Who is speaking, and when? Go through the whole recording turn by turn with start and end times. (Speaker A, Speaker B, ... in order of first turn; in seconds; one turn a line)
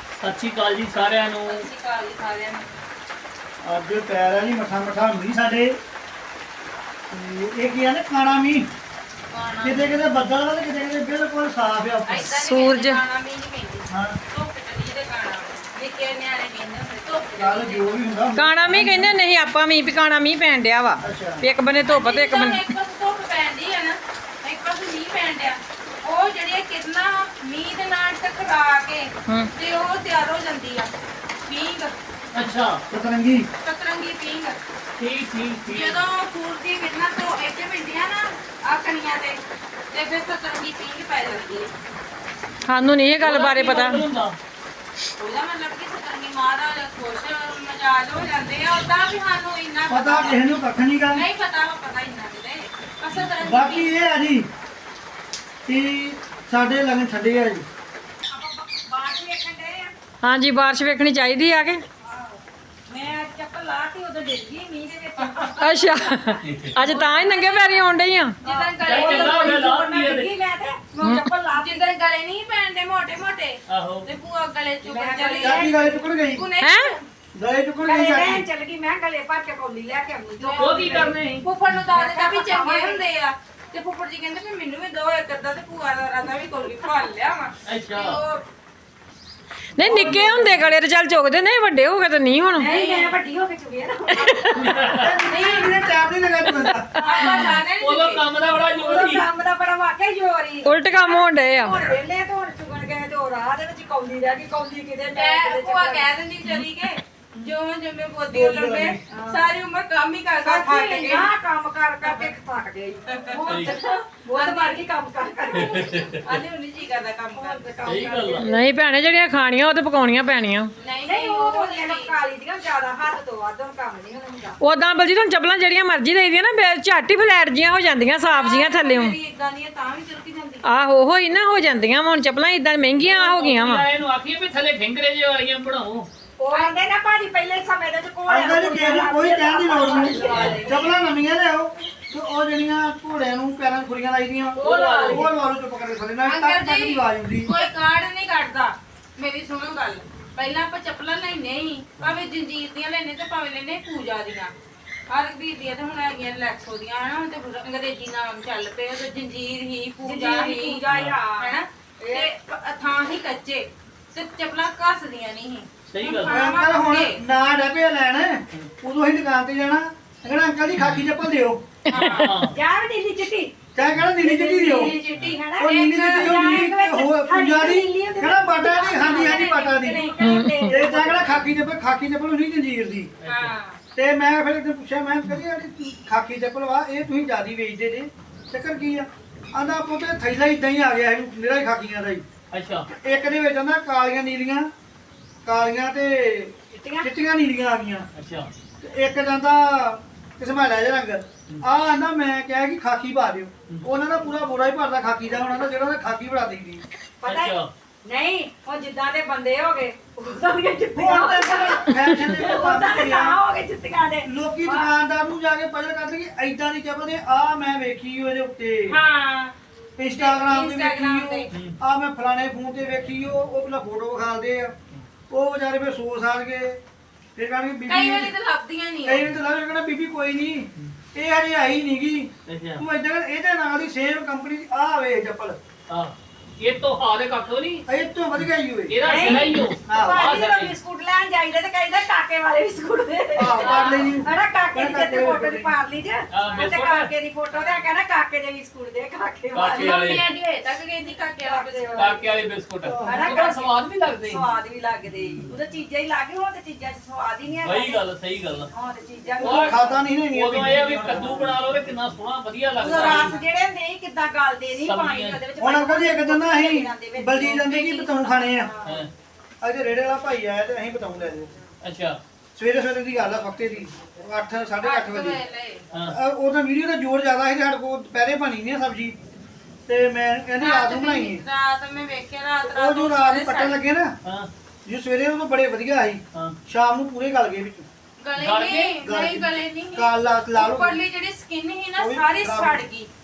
Speaker A: 0.2-1.6
Speaker B: 1.4-2.8
Speaker C: 3.6-5.8
Speaker C: 7.1-8.7
Speaker B: 9.3-10.0
Speaker C: 9.6-12.3
Speaker B: 12.1-18.0
Speaker D: 12.4-13.0
Speaker C: 13.9-14.2
Speaker C: 17.4-19.2
Speaker D: 18.3-22.6
Speaker C: 21.0-21.4
Speaker B: 21.8-30.9
Speaker B: 31.4-31.9
Speaker A: 32.3-32.8
Speaker C: 32.9-33.5
Speaker B: 33.6-34.6
Speaker A: 35.0-36.0
Speaker B: 35.7-41.7
Speaker D: 42.7-44.0
Speaker A: 43.2-44.4
Speaker B: 45.2-50.4
Speaker C: 49.9-51.2
Speaker B: 51.1-54.0
Speaker C: 53.4-54.5
Speaker C: 55.6-57.6
Speaker E: 58.3-59.9
Speaker D: 60.2-61.8
Speaker E: 62.0-67.8
Speaker D: 65.6-68.4
Speaker A: 66.4-66.8
Speaker B: 66.8-67.5
Speaker B: 68.4-69.8
Speaker E: 68.4-71.9
Speaker A: 68.8-70.3
Speaker B: 71.5-77.1
Speaker A: 73.7-74.0
Speaker E: 74.8-76.0
Speaker C: 75.4-76.5
Speaker D: 76.6-76.9
Speaker C: 77.3-78.4
Speaker E: 77.8-81.2
Speaker B: 80.4-88.4
Speaker A: 80.6-81.5
Speaker E: 81.9-83.0
Speaker A: 87.6-88.2
Speaker D: 89.8-92.7
Speaker C: 89.8-90.7
Speaker E: 92.5-95.0
Speaker B: 92.6-93.2
Speaker D: 94.2-94.8
Speaker A: 94.5-95.2
Speaker C: 95.0-97.0
Speaker B: 95.2-95.9
Speaker D: 96.6-97.6
Speaker B: 97.0-98.2
Speaker E: 97.1-97.6
Speaker A: 97.7-99.2
Speaker E: 98.5-106.1
Speaker D: 100.6-101.8
Speaker B: 105.1-111.3
Speaker C: 108.3-109.0
Speaker E: 109.1-109.5
Speaker E: 110.4-116.2
Speaker B: 112.0-112.3
Speaker B: 113.1-114.8
Speaker A: 113.5-113.8
Speaker B: 115.5-117.7
Speaker A: 115.5-116.2
Speaker E: 117.3-118.6
Speaker A: 117.8-118.5
Speaker D: 118.3-120.7
Speaker B: 120.8-122.1
Speaker E: 121.1-124.6
Speaker D: 124.6-129.2
Speaker B: 128.3-130.7
Speaker D: 130.6-133.9
Speaker A: 133.0-136.1
Speaker E: 136.4-141.0
Speaker B: 136.5-136.8
Speaker C: 138.3-147.5
Speaker A: 140.2-140.7
Speaker E: 144.6-145.3
Speaker A: 144.6-145.3
Speaker B: 146.2-154.5
Speaker B: 155.1-160.8
Speaker E: 160.0-162.3
Speaker A: 160.9-161.2
Speaker B: 161.4-167.2
Speaker A: 165.9-166.4
Speaker C: 166.2-171.6
Speaker A: 170.7-171.1
Speaker B: 171.9-172.3
Speaker D: 171.9-172.4
Speaker A: 171.9-172.6
Speaker E: 172.5-181.5
Speaker C: 173.7-175.0
Speaker B: 174.6-176.7
Speaker C: 175.6-180.1
Speaker B: 178.9-180.5
Speaker D: 180.2-180.8
Speaker C: 180.6-183.1
Speaker A: 183.2-183.5
Speaker B: 183.2-183.8
Speaker C: 183.9-192.2
Speaker A: 192.5-192.9
Speaker C: 192.9-194.7
Speaker C: 195.4-198.1
Speaker E: 196.7-197.1
Speaker A: 198.1-198.5
Speaker C: 198.8-206.8
Speaker E: 207.2-214.9
Speaker A: 207.2-207.7
Speaker C: 210.9-213.4
Speaker C: 214.2-219.0
Speaker B: 218.9-219.5
Speaker C: 220.0-224.7
Speaker E: 220.1-221.4
Speaker B: 221.2-221.4
Speaker C: 225.3-226.8
Speaker C: 227.3-228.3
Speaker B: 227.9-229.3
Speaker C: 229.0-235.6
Speaker A: 232.4-232.8
Speaker A: 235.9-237.8
Speaker C: 237.9-239.1
Speaker A: 238.4-240.7
Speaker E: 239.0-250.0
Speaker C: 239.8-240.4
Speaker C: 243.3-245.8
Speaker B: 243.6-244.1
Speaker A: 246.3-247.1
Speaker B: 247.5-247.8
Speaker A: 249.5-250.2
Speaker B: 249.7-252.2
Speaker E: 251.4-252.3
Speaker A: 251.9-254.5
Speaker C: 252.8-253.4
Speaker E: 253.0-258.0
Speaker A: 255.1-255.5
Speaker A: 257.6-258.7
Speaker E: 258.7-260.1
Speaker C: 259.4-261.7
Speaker A: 259.4-263.4
Speaker E: 262.8-268.8
Speaker A: 264.8-265.4
Speaker C: 265.6-268.7
Speaker B: 267.4-269.0
Speaker A: 268.8-269.1
Speaker C: 269.6-271.5
Speaker A: 271.8-272.2
Speaker C: 272.6-275.4
Speaker B: 274.8-275.8
Speaker A: 275.9-276.2
Speaker C: 276.0-279.2
Speaker C: 279.9-281.4
Speaker B: 280.6-283.8
Speaker C: 282.6-284.1
Speaker A: 284.2-284.5
Speaker C: 284.9-287.9
Speaker B: 288.2-293.1
Speaker A: 288.4-289.0
Speaker C: 289.0-291.0
Speaker C: 291.9-292.8